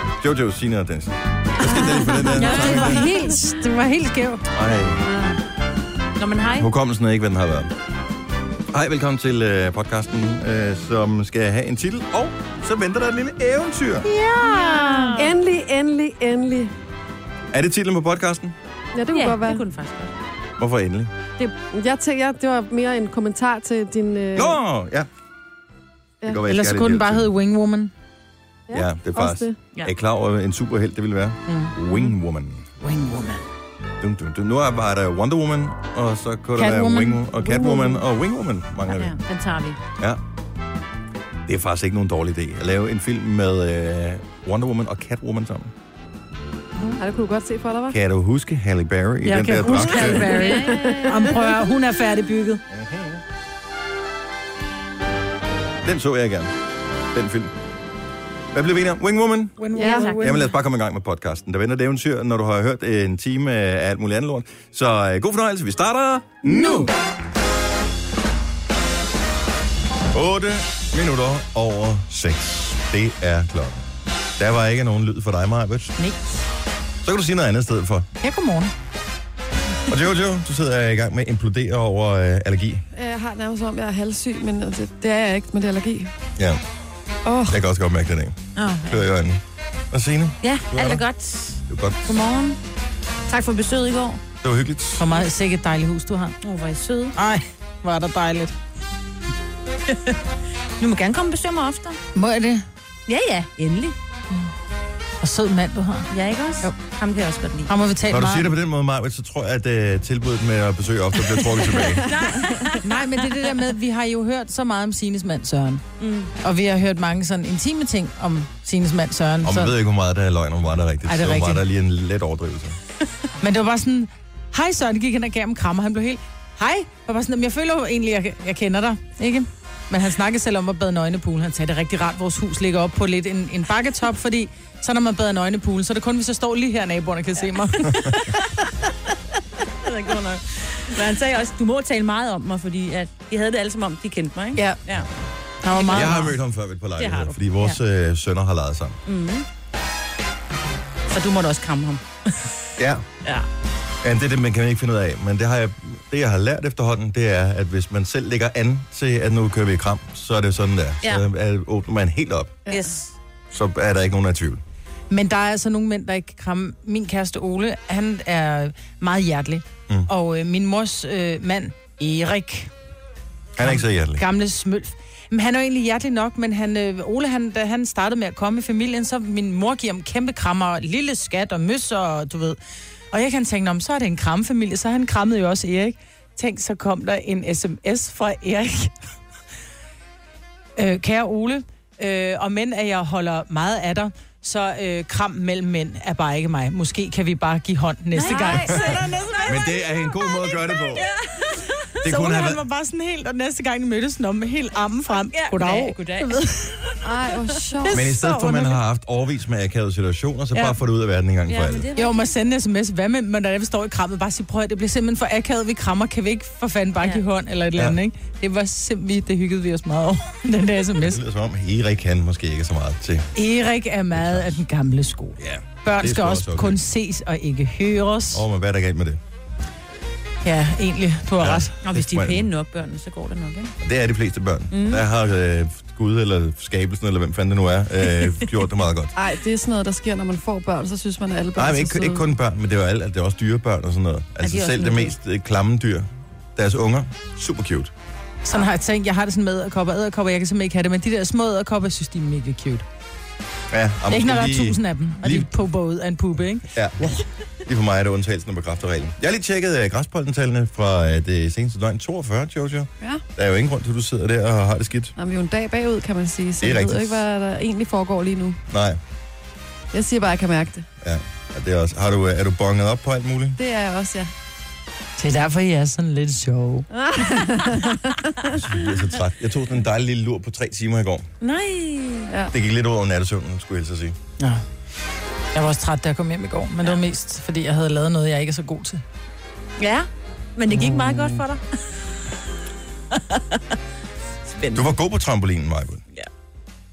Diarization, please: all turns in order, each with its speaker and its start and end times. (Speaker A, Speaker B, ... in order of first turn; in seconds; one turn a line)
Speaker A: 0.2-3.1
Speaker B: 1.7-4.4
Speaker C: 2.3-3.3
Speaker A: 4.5-5.1
Speaker C: 5.1-5.4
Speaker C: 6.2-6.7
Speaker A: 6.6-7.7
Speaker A: 8.7-14.1
Speaker B: 14.1-15.2
Speaker C: 14.4-15.3
Speaker D: 15.2-16.7
Speaker A: 17.5-18.5
Speaker D: 18.9-19.6
Speaker C: 19.1-20.1
Speaker A: 20.6-21.1
Speaker D: 21.4-24.6
Speaker A: 24.3-25.1
Speaker A: 26.2-27.3
Speaker B: 26.5-27.9
Speaker D: 28.7-29.6
Speaker A: 28.7-32.6
Speaker B: 31.5-32.0
Speaker B: 32.8-33.4
Speaker A: 34.0-39.1
Speaker B: 36.5-37.2
Speaker D: 37.4-38.0
Speaker C: 38.9-39.8
Speaker A: 41.5-45.7
Speaker D: 46.9-48.0
Speaker A: 47.9-50.3
Speaker B: 49.2-52.6
Speaker C: 49.9-51.5
Speaker D: 50.2-51.5
Speaker A: 52.7-53.2
Speaker A: 55.8-56.5
Speaker A: 57.1-57.5
Speaker A: 58.5-66.9
Speaker B: 59.6-60.5
Speaker D: 59.8-60.1
Speaker C: 59.8-60.3
Speaker B: 66.5-66.8
Speaker A: 70.1-73.8
Speaker A: 74.4-75.9
Speaker A: 77.0-78.1
Speaker B: 78.2-78.7
Speaker A: 79.9-82.8
Speaker D: 82.9-86.1
Speaker D: 87.2-87.6
Speaker A: 87.5-91.0
Speaker C: 88.6-89.0
Speaker C: 90.4-92.6
Speaker A: 91.7-92.0
Speaker C: 93.3-94.2
Speaker A: 94.4-95.1
Speaker B: 95.0-96.3
Speaker C: 96.4-97.1
Speaker B: 97.2-98.5
Speaker C: 99.9-100.2
Speaker C: 100.8-102.0
Speaker B: 102.1-102.7
Speaker C: 103.1-104.0
Speaker B: 105.2-106.1
Speaker C: 106.1-107.7
Speaker B: 107.7-108.5
Speaker A: 108.1-112.1
Speaker C: 112.0-113.1
Speaker B: 112.8-115.8
Speaker C: 116.0-116.3
Speaker B: 116.4-119.7
Speaker A: 119.4-122.8
Speaker B: 121.0-121.6
Speaker B: 123.4-138.4
Speaker C: 137.8-138.3
Speaker C: 139.8-145.1
Speaker B: 145.6-146.3
Speaker C: 145.7-146.3
Speaker A: 145.9-149.0
Speaker C: 147.0-147.8
Speaker C: 149.1-149.4
Speaker C: 151.1-152.4
Speaker A: 152.8-153.0
Speaker A: 154.0-162.6
Speaker C: 162.7-163.0
Speaker A: 163.5-164.6
Speaker B: 165.1-172.7
Speaker A: 173.6-174.2
Speaker B: 173.6-182.6
Speaker B: 183.1-188.9
Speaker B: 190.8-199.5
Speaker C: 198.2-201.8
Speaker A: 199.4-201.1
Speaker A: 202.0-202.6
Speaker B: 202.0-206.8
Speaker C: 205.3-206.3
Speaker D: 207.0-208.1
Speaker B: 207.9-208.8
Speaker A: 207.9-211.8
Speaker C: 211.5-212.3
Speaker B: 211.9-221.2
Speaker A: 221.0-223.3
Speaker B: 223.3-228.4
Speaker A: 224.1-224.6
Speaker A: 225.4-226.8
Speaker A: 228.3-229.2
Speaker B: 230.4-231.8
Speaker A: 231.4-232.5
Speaker C: 231.8-233.7
Speaker A: 233.8-239.1
Speaker C: 234.7-235.0
Speaker D: 239.1-242.3
Speaker A: 241.6-247.9
Speaker C: 244.4-245.1
Speaker B: 248.4-252.8
Speaker A: 253.7-255.5
Speaker B: 254.1-257.2
Speaker A: 256.7-257.1
Speaker A: 257.6-265.1
Speaker D: 265.2-268.6
Speaker A: 266.6-267.2
Speaker A: 268.7-269.0
Speaker D: 269.9-270.9
Speaker A: 271.0-273.6
Speaker D: 273.6-274.3
Speaker B: 275.2-276.9
Speaker D: 276.9-278.6
Speaker A: 278.5-281.3
Speaker C: 281.4-282.3
Speaker A: 282.5-284.1
Speaker B: 285.5-289.0
Speaker C: 289.8-291.8
Speaker B: 290.7-291.4
Speaker C: 293.1-293.6
Speaker C: 294.5-294.9
Speaker A: 294.7-296.0